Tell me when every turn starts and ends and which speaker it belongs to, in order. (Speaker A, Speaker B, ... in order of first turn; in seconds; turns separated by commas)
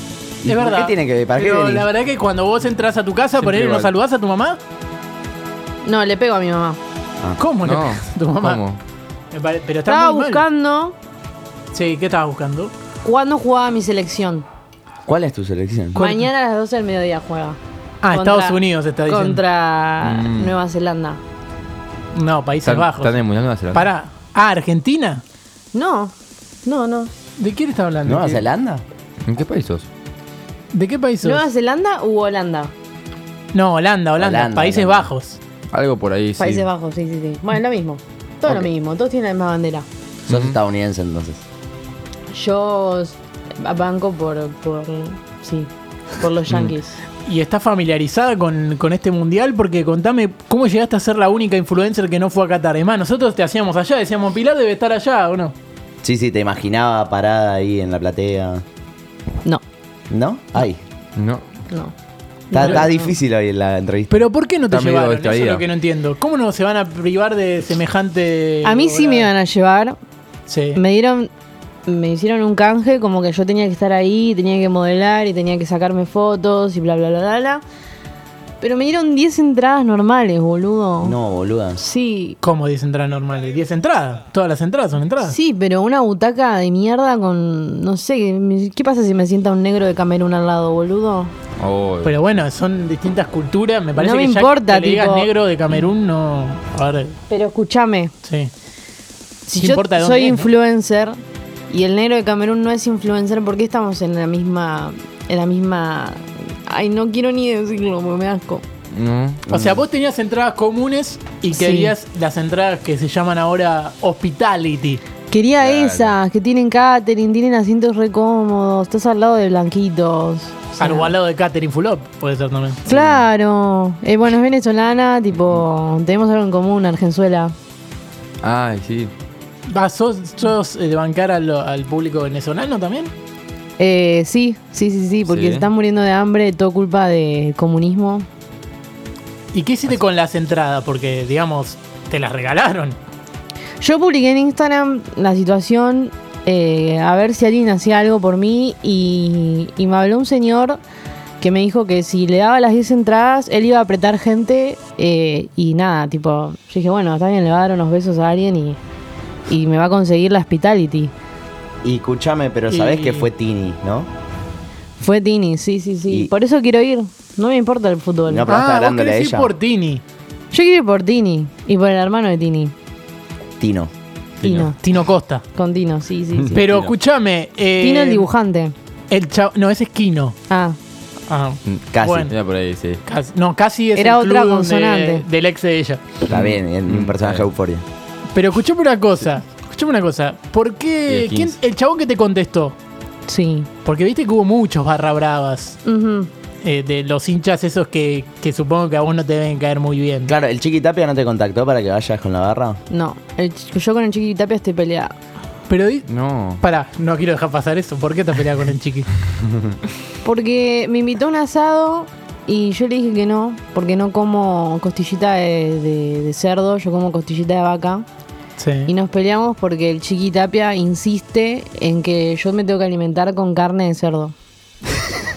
Speaker A: 0.4-1.9, Speaker B: 0.5-4.6, Speaker C: 3.4-3.9, Speaker D: 5.8-6.8, Speaker B: 7.4-8.6, Speaker C: 7.6-8.8, Speaker B: 9.3-10.4, Speaker D: 9.8-10.9, Speaker B: 11.7-12.7, Speaker D: 13.0-14.4, Speaker A: 15.1-16.0, Speaker D: 15.9-21.2, Speaker B: 16.0-16.2, Speaker B: 18.0-19.4, Speaker C: 20.0-20.6, Speaker B: 22.1-23.2, Speaker C: 22.6-23.9, Speaker B: 23.7-25.2, Speaker D: 25.7-27.1, Speaker B: 27.4-28.4, Speaker A: 28.1-28.8, Speaker C: 29.2-29.9, Speaker B: 30.7-31.4, Speaker D: 31.2-32.7, Speaker B: 33.5-35.4, Speaker A: 34.2-35.1, Speaker C: 35.7-36.7, Speaker D: 36.4-39.9, Speaker A: 40.3-41.4, Speaker C: 40.3-40.5, Speaker D: 42.3-47.0, Speaker B: 47.2-55.5, Speaker A: 56.0-58.6, Speaker A: 60.1-60.8, Speaker C: 61.2-61.4, Speaker D: 62.5-63.1, Speaker A: 62.5-64.2, Speaker B: 62.6-62.9, Speaker B: 64.1-69.3, Speaker C: 64.7-65.7, Speaker D: 68.6-70.0, Speaker B: 70.5-70.8, Speaker D: 70.7-71.3, Speaker D: 71.9-77.6, Speaker D: 78.6-81.2, Speaker A: 81.0-81.8, Speaker D: 81.8-82.4, Speaker B: 82.4-85.3, Speaker D: 85.2-91.3, Speaker C: 91.6-92.2, Speaker B: 92.0-97.2, Speaker D: 94.0-95.3, Speaker D: 97.3-98.1, Speaker B: 98.2-98.5, Speaker D: 99.5-101.2, Speaker B: 99.6-100.5, Speaker D: 101.7-108.6, Speaker C: 108.9-109.4, Speaker A: 109.5-109.8, Speaker B: 109.5-115.0, Speaker D: 111.5-111.9, Speaker D: 115.3-121.1, Speaker C: 115.6-116.1, Speaker B: 120.8-122.8, Speaker D: 122.9-127.5, Speaker C: 122.9-123.2, Speaker C: 128.4-129.1, Speaker B: 129.7-133.1, Speaker D: 133.8-138.3, Speaker C: 135.2-135.7, Speaker B: 139.5-143.0, Speaker D: 143.8-150.8, Speaker D: 151.4-158.8, Speaker D: 159.5-161.1, Speaker A: 161.8-164.1, Speaker B: 162.7-163.3, Speaker D: 165.0-168.6, Speaker A: 168.3-169.5, Speaker B: 168.5-170.0, Speaker D: 170.5-172.7, Speaker A: 173.6-173.9, Speaker C: 174.4-174.7, Speaker D: 174.4-174.8, Speaker B: 174.7-175.4, Speaker D: 175.5-176.6, Speaker C: 176.4-176.9, Speaker B: 176.5-178.3, Speaker D: 177.8-178.7, Speaker B: 179.1-180.3, Speaker D: 180.5-180.8, Speaker B: 181.3-182.3, Speaker C: 181.7-183.0, Speaker A: 181.9-182.2, Speaker B: 183.1-186.0, Speaker D: 183.9-185.2, Speaker A: 186.2-187.8, Speaker C: 186.3-187.4, Speaker B: 188.3-192.8, Speaker C: 191.1-191.6, Speaker D: 193.3-193.7, Speaker B: 193.8-195.8, Speaker D: 195.8-196.3, Speaker B: 196.6-200.3, Speaker A: 200.3-202.8, Speaker D: 202.9-205.1, Speaker B: 205.7-206.1, Speaker C: 206.1-206.6, Speaker B: 206.6-209.1, Speaker D: 210.2-218.1, Speaker B: 218.6-218.9, Speaker D: 218.9-224.3